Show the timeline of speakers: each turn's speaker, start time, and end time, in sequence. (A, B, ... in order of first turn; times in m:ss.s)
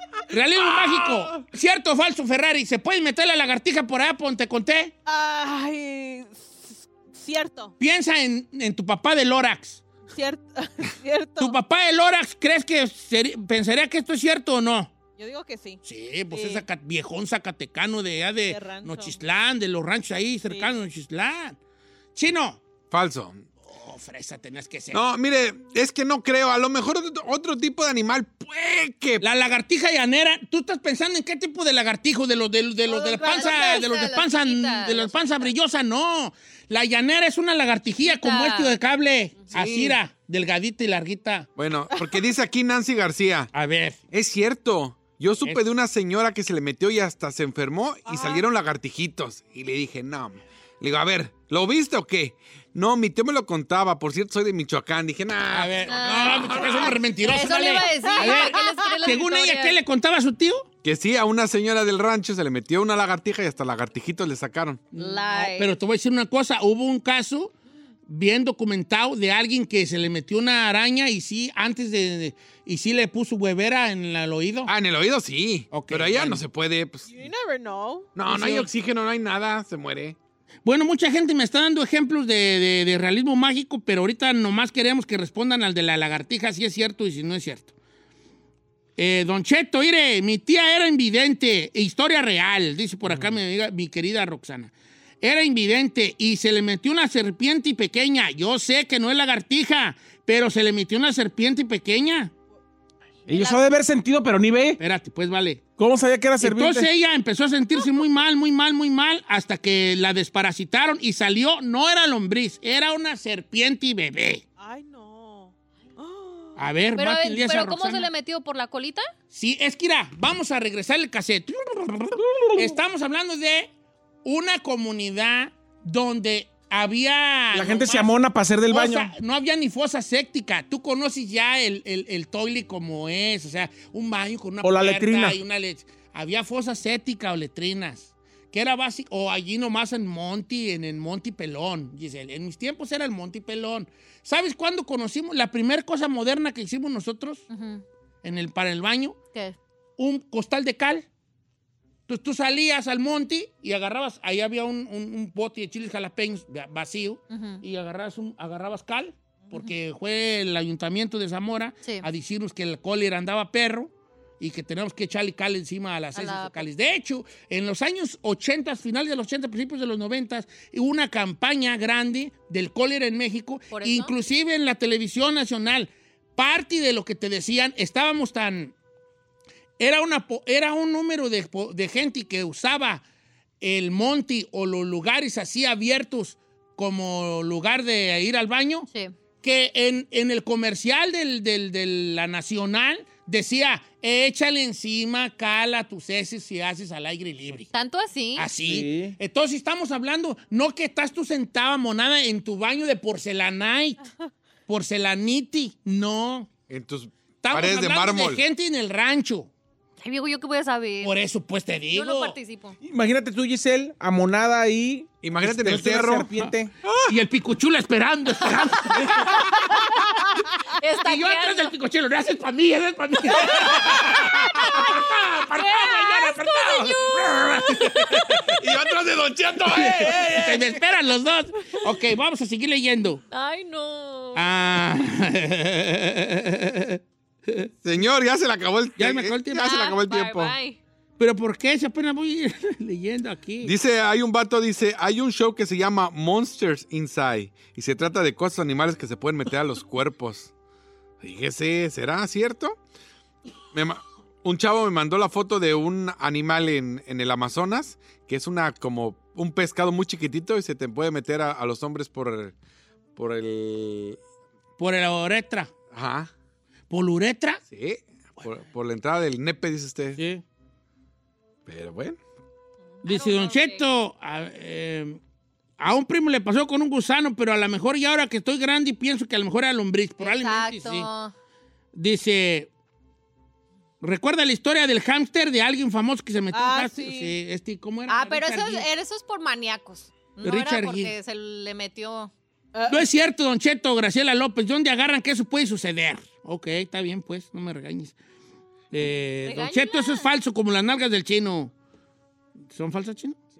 0:00.3-0:04.9 A
0:00.6-0:01.2 B
0:05.0-0:07.7 C
0:07.8-0:09.8 A
0:10.1-0:11.6 C
0:11.4-0:14.9 A
0:15.2-0:16.6 C
0:15.8-0:21.6 A
0:18.4-0:19.2 C
0:20.5-0:20.7 C
0:22.1-0:22.6 A
0:22.9-0:23.4 B
0:23.7-0:25.0 A
0:24.9-0:29.2 B
0:29.2-0:41.5 A
0:32.9-0:33.8 C
0:33.0-0:35.5 D
0:38.0-0:38.7 D
0:39.5-0:40.0 B
0:41.6-0:43.5 B
0:41.9-0:42.2 C
0:43.5-0:44.0 A
0:44.1-0:56.9 B
0:48.0-0:48.4 C
0:55.5-1:00.7 A
0:55.9-0:59.8 D
0:58.0-0:58.7 C
1:00.8-1:04.8 B
1:04.9-1:07.5 A
1:05.0-1:05.7 D
1:08.1-1:14.7 A
1:14.7-1:17.1 B
1:15.7-1:16.4 A
1:17.1-1:18.1 C
1:18.1-1:20.2 B
1:18.3-1:18.7 A
1:20.6-1:27.7 A
1:29.0-1:42.3 A
1:33.0-1:33.3 E
1:43.3-1:44.8 E
1:43.3-1:43.6 D
1:44.8-1:45.7 A
1:45.8-1:46.9 E
1:46.4-1:54.4 A
1:54.6-1:56.6 C
1:56.6-1:58.1 A
1:57.0-1:59.1 D
1:59.3-2:03.7 A
2:02.2-2:02.8 E
2:04.2-2:08.1 A
2:07.5-2:09.1 E
2:08.7-2:27.5 A
2:14.6-2:15.4 E
2:27.5-2:27.8 D
2:28.2-2:29.2 A
2:30.0-2:31.0 A
2:32.1-2:58.7 A
2:37.3-2:37.6 D
2:46.1-2:46.6 D
2:53.7-2:54.1 D
2:59.8-3:03.0 A
3:03.6-3:08.9 A
3:09.4-3:17.7 A
3:17.7-3:18.5 D
3:18.4-3:24.0 A
3:18.6-3:19.2 E
3:24.7-3:26.5 A
3:26.7-3:28.4 B
3:27.4-3:29.5 A
3:30.0-3:31.2 D
3:31.0-3:32.4 A
3:31.9-3:32.8 D
3:32.8-3:36.7 E
3:35.2-3:37.1 B
3:37.1-3:40.0 A
3:40.0-3:41.7 D
3:41.0-3:48.6 A
3:44.1-3:44.6 B
3:44.6-3:45.0 D
3:45.5-3:48.5 D
3:48.6-3:50.6 B
3:49.7-3:53.2 A
3:53.3-3:54.5 D
3:54.4-3:57.7 A
3:57.8-4:00.6 B
3:59.0-3:59.7 A
3:59.6-4:00.8 D
4:01.2-4:03.7 A
4:03.6-4:10.5 B
4:11.2-4:12.8 B
4:13.7-4:22.5 B
4:23.2-4:24.2 B
4:24.8-4:25.7 A
4:25.9-4:26.3 B
4:26.9-4:27.6 A
4:27.7-4:30.2 B
4:30.2-4:30.4 A
4:31.6-4:32.2 B
4:33.0-4:33.8 D
4:33.0-4:35.2 A
4:35.8-4:41.1 A
4:40.2-4:41.3 D
4:41.9-4:42.7 A
4:44.0-4:48.8 A
4:46.5-4:47.4 C
4:48.1-4:52.3 D
4:50.4-4:51.1 A
4:52.7-4:53.0 C
4:52.9-4:58.1 A
4:58.9-5:01.7 A
4:59.4-5:00.3 D
5:02.7-5:03.4 A